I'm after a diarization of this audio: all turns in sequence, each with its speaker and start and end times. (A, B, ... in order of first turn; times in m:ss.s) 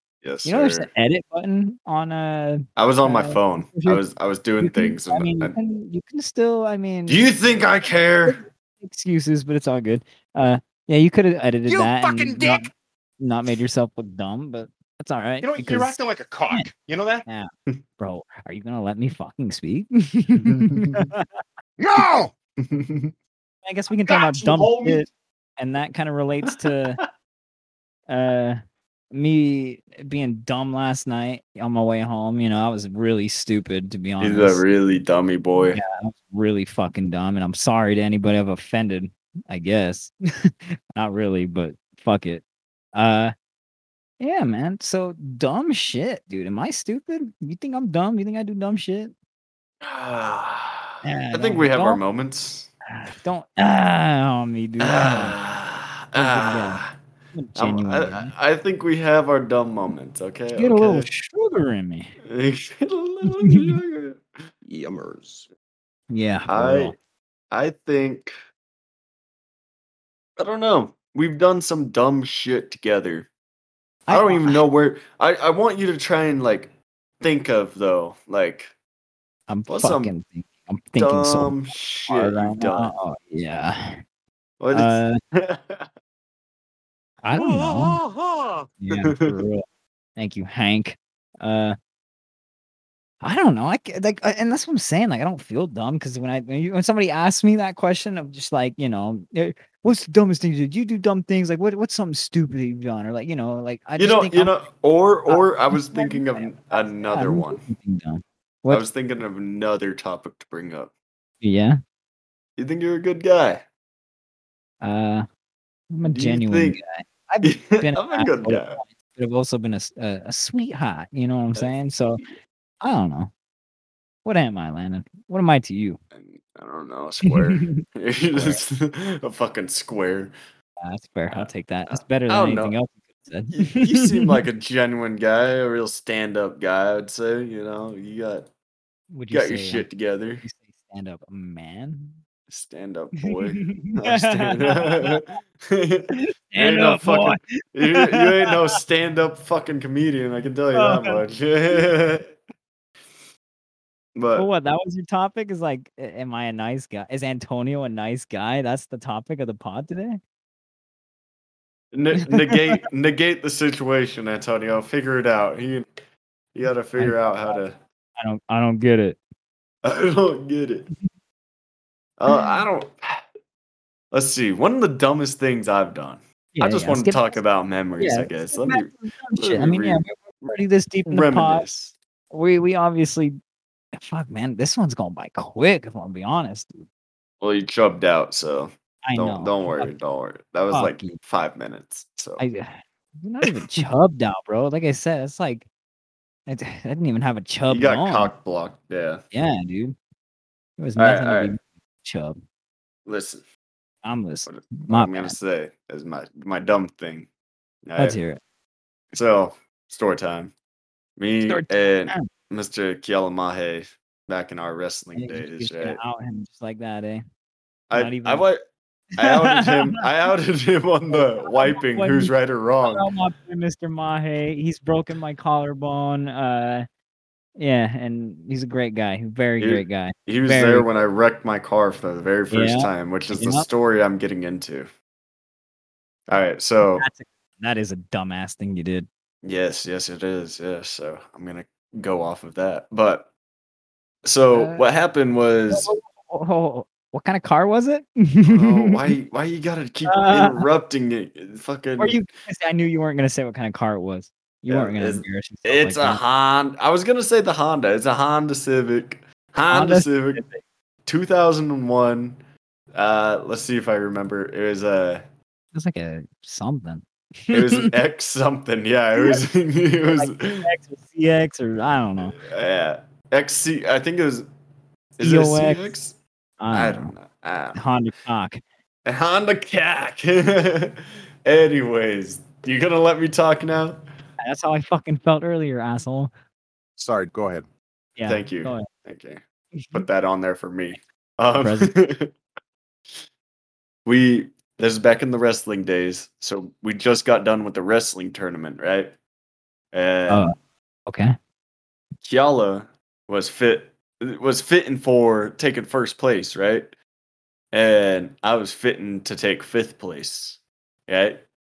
0:00.2-0:00.9 A
0:00.4-0:04.0 B
0:02.8-0:05.6 A
0:04.6-0:07.3 B
0:07.1-0:08.4 A
0:08.3-0:16.0 B
0:11.7-0:12.7 C
0:15.4-0:17.2 C
0:17.3-0:21.3 B
0:20.4-0:21.0 A
0:21.8-0:22.3 C
0:22.6-0:23.1 A
0:23.6-0:27.0 B
0:24.0-0:25.1 C
0:28.1-0:28.6 B
0:29.1-0:34.7 B
0:34.2-0:35.8 A
0:35.7-0:42.4 B
0:43.0-0:43.3 B
0:44.2-0:49.1 B
0:49.8-0:52.7 A
0:51.0-0:52.0 B
0:52.9-0:55.4 B
0:54.8-0:56.9 A
0:56.2-0:56.8 B
0:57.4-0:58.3 B
0:57.6-1:01.1 A
1:00.5-1:02.1 B
1:02.2-1:04.2 A
1:03.3-1:03.8 B
1:04.6-1:05.5 C
1:06.1-1:07.0 B
1:06.5-1:07.0 A
1:07.5-1:08.3 A
1:10.4-1:13.3 A
1:14.1-1:14.6 B
1:14.1-1:18.7 A
1:19.5-1:24.0 B
1:19.7-1:20.1 A
1:21.0-1:22.9 A
1:24.6-1:25.9 A
1:24.7-1:25.2 B
1:27.2-1:28.0 B
1:27.3-1:28.7 C
1:28.8-1:29.6 B
1:29.0-1:29.4 A
1:30.2-1:31.8 B
1:33.2-1:44.6 B
1:44.0-1:47.6 A
1:45.3-1:48.9 B
1:48.7-1:50.9 A
1:51.4-1:51.8 B
1:52.6-1:53.6 A
1:54.8-1:55.2 B
1:55.9-2:02.2 B
1:56.0-1:56.8 A
1:57.4-1:58.8 A
2:01.6-2:02.3 A
2:02.8-2:03.3 B
2:04.2-2:06.0 B
2:06.1-2:10.3 A
2:07.2-2:07.8 B
2:08.3-2:08.6 B
2:10.8-2:14.4 B
2:11.3-2:12.8 A
2:13.5-2:18.5 A
2:19.1-2:19.9 B
2:19.3-2:20.4 A
2:20.4-2:22.2 B
2:22.5-2:32.3 A
2:23.3-2:25.2 B
2:26.1-2:28.6 B
2:30.7-2:31.2 B
2:34.2-2:34.5 A
2:34.4-2:40.2 B
2:41.9-2:45.9 A
2:42.3-2:42.8 B
2:46.5-2:47.8 A
2:47.0-2:47.6 B
2:48.2-2:49.2 B
2:49.8-2:50.9 A
2:52.2-2:53.2 A
2:54.1-3:00.0 A
2:56.6-2:57.4 B
2:58.0-3:01.7 B
3:01.1-3:02.0 A
3:02.3-3:03.4 B
3:04.0-3:06.8 B
3:07.4-3:12.4 A
3:09.0-3:09.9 B
3:10.7-3:11.2 B
3:12.4-3:15.7 B
3:13.4-3:13.8 A
3:16.5-3:18.3 B
3:17.7-3:19.2 A
3:19.3-3:20.0 B
3:20.8-3:22.4 B
3:21.0-3:21.5 A
3:23.1-3:23.4 A
3:24.0-3:25.4 B
3:24.4-3:27.3 A
3:27.9-3:28.2 A
3:28.0-3:28.4 B
3:29.1-3:30.5 A
3:31.2-3:36.0 A
3:31.4-3:32.3 B
3:35.2-3:37.2 B
3:37.9-3:38.6 A
3:37.9-3:38.5 B
3:39.2-3:43.1 A
3:39.2-3:40.0 B
3:41.1-3:42.3 B
3:42.8-3:46.9 B
3:47.6-3:50.9 B
3:49.6-3:54.9 A
3:52.5-3:53.7 B
3:56.3-3:57.1 A
3:57.0-3:59.1 B
3:59.4-4:03.3 A
4:04.2-4:05.9 A
4:04.5-4:04.8 B
4:05.7-4:09.1 B
4:08.5-4:12.2 A
4:10.1-4:10.6 B
4:12.0-4:16.2 B
4:14.7-4:20.4 A
4:19.7-4:20.6 B
4:21.1-4:22.4 A
4:22.9-4:25.2 A
4:25.7-4:27.9 B
4:27.5-4:30.7 A
4:29.2-4:29.4 B
4:30.1-4:32.4 B
4:32.3-4:34.5 A
4:35.2-4:36.2 A
4:35.2-4:36.0 B
4:36.6-4:37.2 B
4:36.7-4:37.8 A
4:37.8-4:38.6 B
4:39.0-4:44.0 A
4:44.4-4:46.3 B
4:47.0-4:47.7 C
4:48.2-4:48.9 B
4:48.3-4:49.4 A
4:49.8-4:50.0 B
4:49.9-4:52.4 A
4:51.6-4:51.9 B
4:54.0-4:59.2 A
4:59.9-5:00.5 A
5:00.3-5:00.5 B
5:01.1-5:01.4 B
5:02.2-5:06.9 A
5:07.7-5:11.4 A